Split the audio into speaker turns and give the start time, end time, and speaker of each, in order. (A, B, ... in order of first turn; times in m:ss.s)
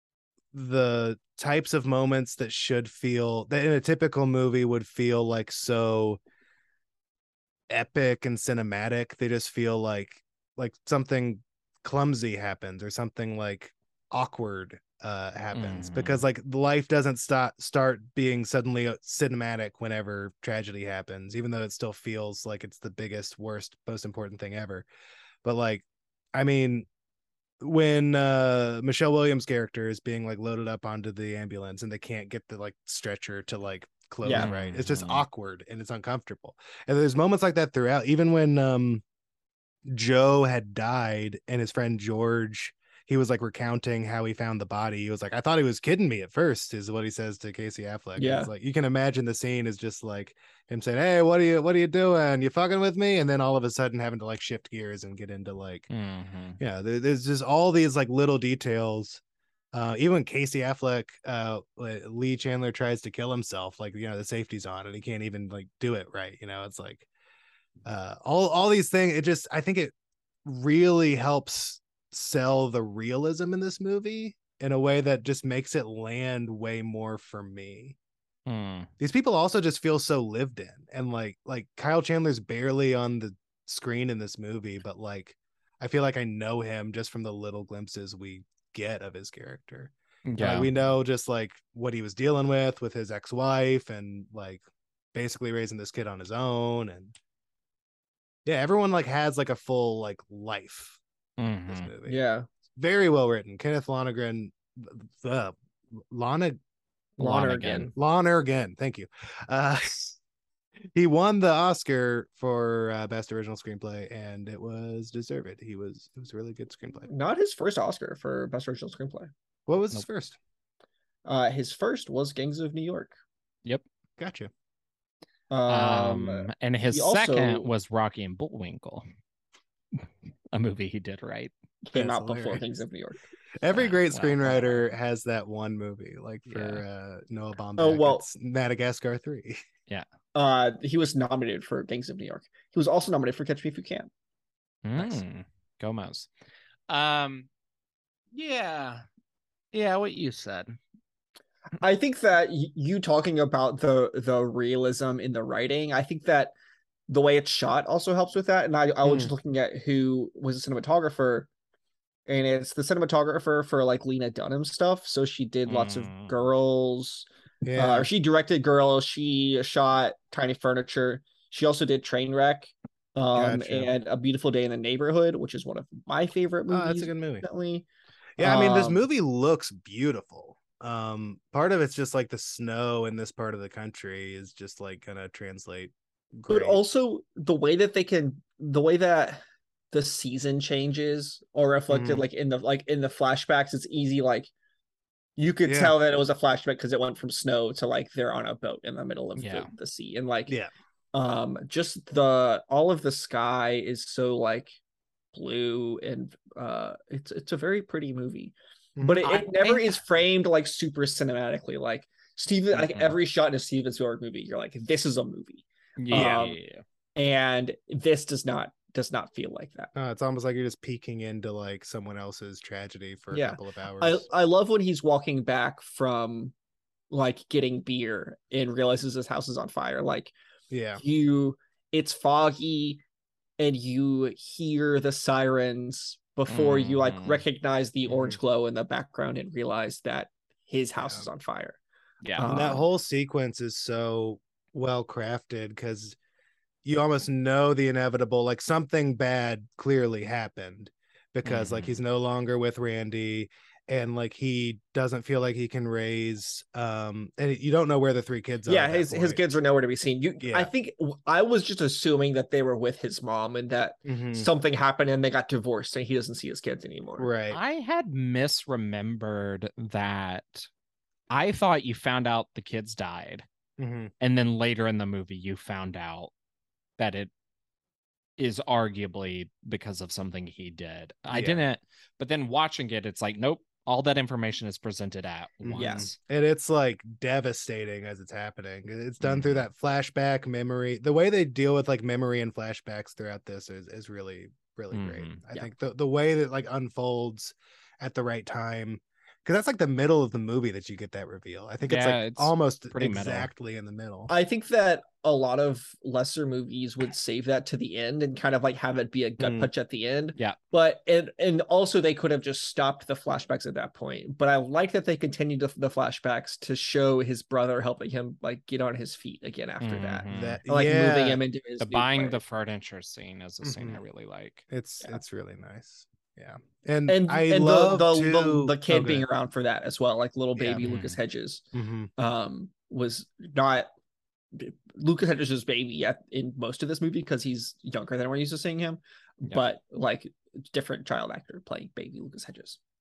0:00.5-0:06.2 A
0:07.7-0:24.9 A
0:15.5-0:16.2 B
0:25.4-0:26.9 A
0:27.6-0:39.0 A
0:34.2-0:34.5 C
0:34.3-0:35.2 B
0:39.9-0:55.9 A
0:48.2-0:48.5 C
0:55.9-0:56.6 B
0:56.6-0:59.2 A
0:59.7-1:07.1 A
1:07.8-1:09.9 A
1:10.4-1:18.0 A
1:18.5-1:18.9 B
1:19.0-1:34.6 A
1:30.3-1:30.7 B
1:35.1-1:37.2 A
1:38.4-1:41.0 A
1:41.4-1:41.9 B
1:41.7-1:42.2 A
1:42.1-1:42.5 C
1:42.8-1:46.6 A
1:47.2-1:47.9 C
1:47.2-1:47.9 B
1:48.0-1:50.2 A
1:50.9-1:57.1 A
1:57.1-1:59.3 C
1:59.7-2:00.4 A
2:01.2-2:03.2 C
2:04.2-2:04.5 A
2:05.5-2:07.7 C
2:05.7-2:09.0 B
2:09.9-2:11.5 B
2:11.8-2:13.2 C
2:12.0-2:12.6 A
2:13.6-2:19.6 A
2:13.7-2:14.9 B
2:16.5-2:16.8 B
2:17.8-2:18.3 C
2:20.4-2:24.1 C
2:24.8-2:26.3 B
2:26.9-2:27.5 B
2:28.3-2:29.0 B
2:29.7-2:30.8 B
2:31.8-2:36.5 C
2:37.1-2:41.5 C
2:39.0-2:39.3 A
2:42.3-2:57.9 C
2:45.7-2:46.4 B
2:47.6-2:48.1 A
2:53.4-2:53.9 A
2:56.7-2:57.4 A
2:58.4-3:06.8 A
2:58.4-2:59.0 C
3:06.5-3:14.5 C
3:11.9-3:12.3 A
3:15.4-3:20.6 C
3:15.6-3:16.0 A
3:19.4-3:19.7 B
3:21.1-3:24.7 C
3:25.3-3:36.6 C
3:29.0-3:29.2 A
3:29.2-3:30.0 B
3:32.7-3:33.2 B
3:36.0-3:36.8 B
3:36.1-3:36.5 A
3:37.2-3:39.9 C
3:40.0-3:44.3 A
3:43.3-3:46.5 C
3:47.1-3:50.3 C
3:50.7-3:51.0 A
3:51.0-3:53.0 C
3:53.6-4:01.8 C
3:56.5-3:57.4 B
3:58.1-3:58.4 A
4:01.0-4:01.3 A
4:02.2-4:02.5 B
4:02.4-4:02.8 C
4:02.4-4:06.2 A
4:06.8-4:19.4 A
4:11.4-4:12.0 B
4:18.7-4:27.3 C
4:20.4-4:20.7 A
4:24.1-4:24.5 A
4:27.2-4:27.6 A
4:27.5-4:30.7 B
4:31.3-4:33.4 B
4:33.8-4:34.1 A
4:34.2-4:36.3 B
4:37.0-4:37.3 B
4:38.4-4:46.2 B
4:41.3-4:41.6 A
4:45.6-5:04.3 A
4:45.8-4:46.1 C
4:49.2-4:49.7 B
4:54.9-4:55.4 B
5:01.8-5:03.5 B
5:04.3-5:22.4 C
5:09.4-5:09.7 A
5:19.8-5:20.6 B
5:20.3-5:21.4 A
5:21.8-5:24.6 B
5:23.6-5:24.0 A
5:24.7-5:29.3 A
5:27.1-5:31.6 C
5:30.6-5:30.9 A
5:30.8-5:31.2 B
5:31.7-5:32.1 A
5:32.2-5:33.9 C
5:34.5-5:42.8 C